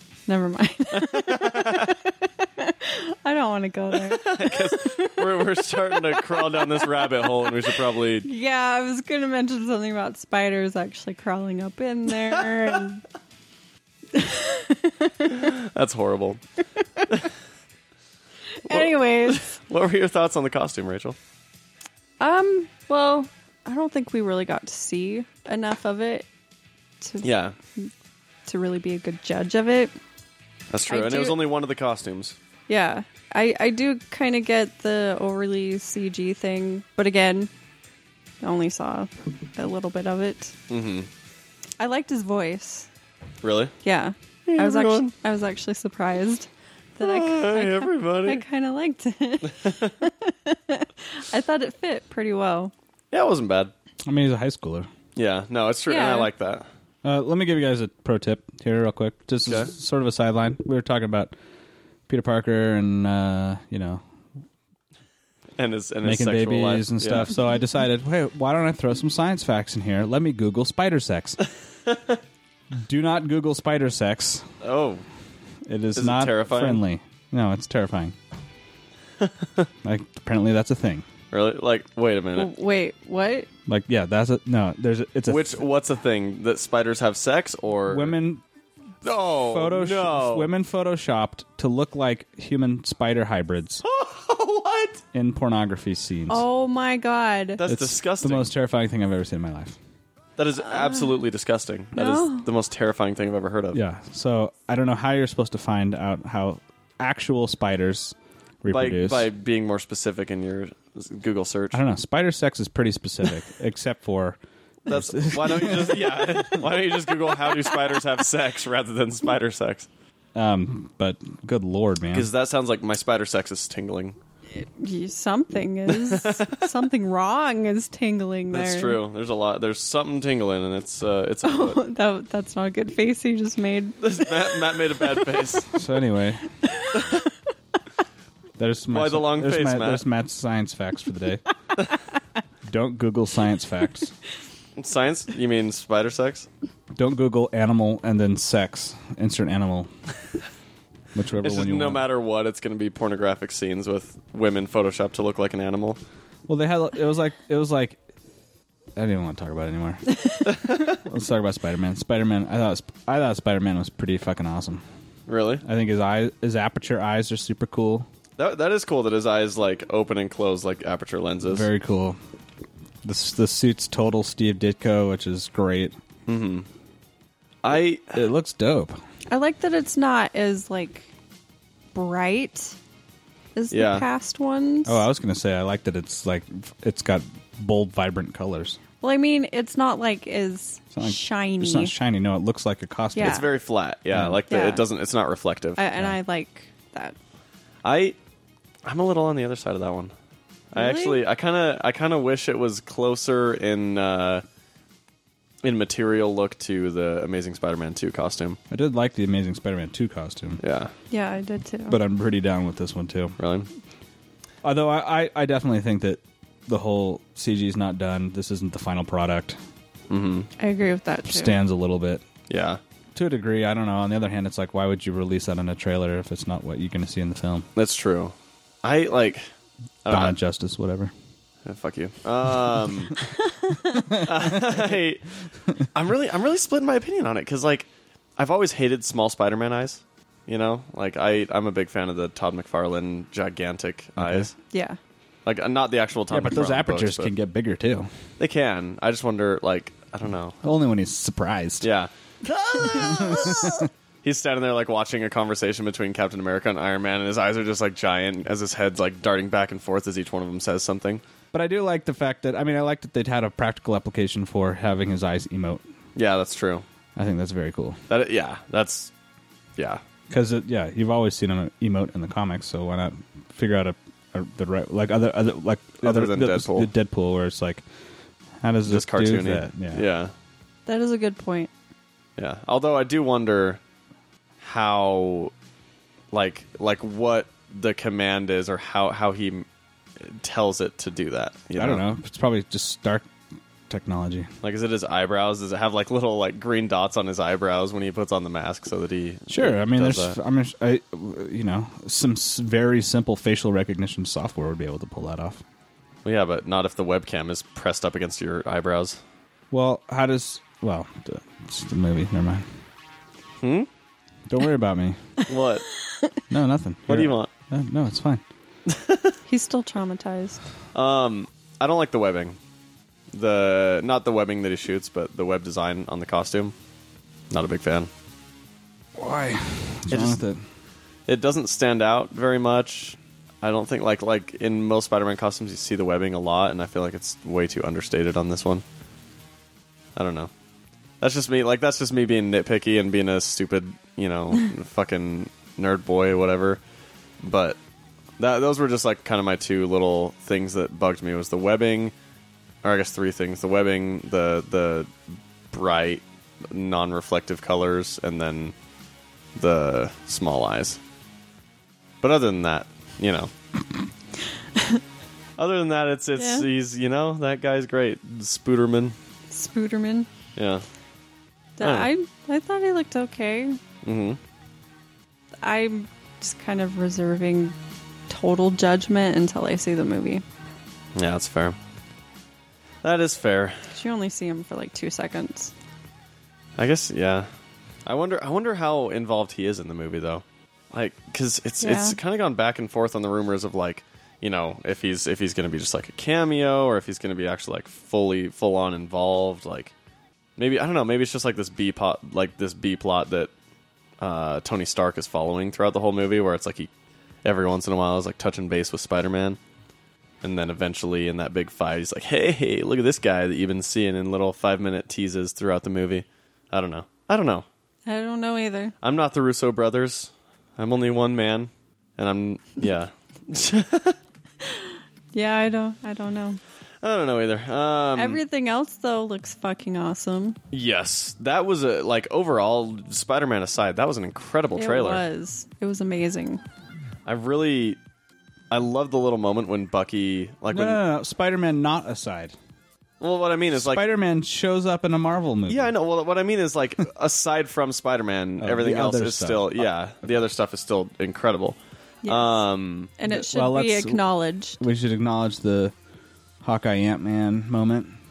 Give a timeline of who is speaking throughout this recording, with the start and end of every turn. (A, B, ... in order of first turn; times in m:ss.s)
0:00.3-0:13.0 A
0:00.9-0:02.0 B
0:03.9-0:08.3 B
0:12.3-0:12.8 B
0:14.1-0:15.5 A
0:15.3-0:16.4 B
0:18.6-0:19.5 A
0:18.7-0:21.2 B
0:22.2-0:26.3 A
0:27.0-0:27.9 A
0:27.2-0:27.6 B
0:28.5-0:29.9 A
0:30.7-0:32.4 B
0:30.9-0:31.5 A
0:32.7-0:37.5 A
0:38.4-0:40.6 A
0:40.7-0:41.1 B
0:41.8-0:42.9 A
0:43.4-0:43.7 B
0:43.8-0:52.7 A
0:44.5-0:45.1 B
0:47.0-0:48.4 B
0:49.6-0:49.9 B
0:53.1-0:53.7 B
0:54.0-0:54.9 C
0:55.2-0:56.7 B
0:55.9-0:56.3 A
0:57.0-1:01.3 C
0:59.4-0:59.7 B
1:02.1-1:04.0 C
1:05.6-1:07.3 B
1:06.0-1:11.4 C
1:11.9-1:12.2 B
1:12.7-1:14.5 C
1:14.6-1:15.0 B
1:15.6-1:18.2 C
1:16.0-1:16.8 B
1:19.2-1:19.7 B
1:19.8-1:21.1 C
1:21.3-1:22.5 B
1:22.4-1:23.5 A
1:23.7-1:25.6 C
1:25.3-1:28.2 B
1:27.9-1:28.4 C
1:29.0-1:30.5 B
1:29.2-1:33.8 C
1:33.8-1:35.0 B
1:35.1-1:36.4 C
1:36.3-1:37.6 A
1:37.6-1:38.5 B
1:37.7-1:39.8 C
1:40.4-1:43.8 B
1:40.6-1:41.2 A
1:42.0-1:42.5 A
1:43.7-1:49.3 C
1:48.7-1:51.8 B
1:51.7-1:56.6 C
1:54.9-1:59.9 B
2:00.4-2:02.3 C
2:02.1-2:04.2 B
2:04.6-2:09.0 A
2:05.9-2:06.6 B
2:08.5-2:11.8 B
2:11.4-2:15.5 A
2:14.0-2:15.7 B
2:15.7-2:16.5 C
2:16.6-2:17.3 A
2:16.9-2:17.2 B
2:18.6-2:21.4 C
2:18.9-2:20.0 B
2:22.6-2:24.1 C
2:24.8-2:26.5 B
2:26.9-2:29.9 C
2:31.2-2:32.0 C
2:31.4-2:36.0 B
2:36.5-2:38.0 C
2:39.0-2:40.1 C
2:40.5-2:40.9 B
2:40.6-2:44.8 C
2:45.3-2:45.6 B
2:45.6-2:48.1 C
2:48.4-2:51.7 B
2:51.5-2:52.2 C
2:53.0-2:56.0 C
2:56.3-2:56.7 B
2:57.6-2:58.2 B
2:58.1-2:59.0 C
2:59.3-3:01.1 A
3:02.0-3:02.8 A
3:03.6-3:05.0 A
3:03.7-3:04.1 B
3:04.9-3:08.8 C
3:09.0-3:11.9 A
3:11.0-3:13.4 C
3:13.2-3:13.5 A
3:13.2-3:15.8 B
3:14.1-3:14.4 C
3:14.5-3:14.8 A
3:15.8-3:17.2 A
3:17.8-3:18.2 B
3:18.9-3:20.1 B
3:20.7-3:24.4 B
3:20.7-3:21.2 A
3:25.6-3:28.6 B
3:28.7-3:30.6 C
3:30.6-3:30.9 B
3:31.1-3:32.0 A
3:31.9-3:33.4 C
3:33.4-3:33.7 B
3:34.6-3:39.6 C
3:40.1-3:40.5 B
3:40.6-3:41.6 A
3:41.3-3:42.2 C
3:42.5-3:42.8 B
3:43.2-3:47.7 C
3:47.8-3:49.5 B
3:50.0-3:50.4 B
3:50.1-3:51.1 C
3:51.7-3:53.2 B
3:53.7-3:54.1 A
3:54.1-3:54.8 C
3:54.1-3:55.2 B
3:55.9-4:04.6 B
4:04.2-4:04.5 C
4:04.7-4:05.0 A
4:05.5-4:07.3 B
4:06.3-4:08.1 C
4:08.4-4:10.6 B
4:10.6-4:11.9 C
4:11.8-4:21.2 B
4:12.8-4:13.9 C
4:21.5-4:25.8 C
4:26.2-4:26.8 B
4:27.2-4:28.0 C
4:28.1-4:29.1 B
4:29.8-4:30.0 B
4:30.3-4:37.8 C
4:36.0-4:36.9 B
4:38.6-4:40.0 C
4:38.9-4:40.3 B
4:40.9-4:41.7 A
4:42.4-4:43.8 B
4:44.6-4:45.5 B
4:46.3-4:49.7 B
4:50.2-4:52.0 B
4:51.8-4:53.3 C
4:53.9-4:54.5 C
4:54.6-5:00.4 B
4:59.5-5:05.6 C
5:06.2-5:09.2 B
5:09.7-5:12.7 C
5:13.6-5:13.9 B
5:14.5-5:15.4 C
5:15.5-5:15.9 B
5:16.5-5:18.4 C
5:17.1-5:17.5 B
5:18.9-5:19.4 B
5:19.5-5:20.6 A
5:20.9-5:22.6 B
5:23.3-5:26.8 B
5:27.5-5:28.1 B
5:29.2-5:30.7 C
5:30.1-5:30.4 B
5:31.3-5:38.8 B
5:40.2-5:40.5 B
5:41.2-5:46.8 B
5:47.4-5:47.8 B
5:48.4-5:52.1 B
5:52.8-5:55.1 B
5:55.7-5:58.8 B
5:59.6-6:01.0 B
6:02.2-6:03.5 B
6:04.8-6:05.0 A
6:05.6-6:09.2 B
6:06.4-6:06.7 A
6:09.5-6:10.3 A
6:10.6-6:10.8 B
6:11.8-6:13.8 A
6:11.8-6:12.1 B
6:14.0-6:14.4 B
6:15.6-6:17.8 A
6:18.3-6:20.4 A
6:21.2-6:21.8 B
6:23.0-6:23.9 B
6:23.9-6:25.7 A
6:26.8-6:27.5 B
6:28.1-6:39.9 B
6:31.8-6:32.2 A
6:40.6-6:43.5 B
6:44.2-6:46.9 B
6:47.4-6:49.6 B
6:50.4-6:57.7 B
6:58.1-6:58.9 A
6:59.0-7:04.2 B
7:04.6-7:06.6 A
7:07.0-7:08.4 B
7:08.2-7:10.6 A
7:10.7-7:15.2 B
7:14.8-7:16.6 A
7:17.3-7:18.0 B
7:18.7-7:21.0 B
7:20.7-7:22.6 C
7:23.2-7:24.1 B
7:23.8-7:25.9 C
7:25.7-7:33.1 B
7:28.6-7:29.9 C
7:32.2-7:32.6 A
7:33.2-7:34.8 A
7:33.3-7:34.2 C
7:34.8-7:35.9 C
7:36.6-7:38.2 C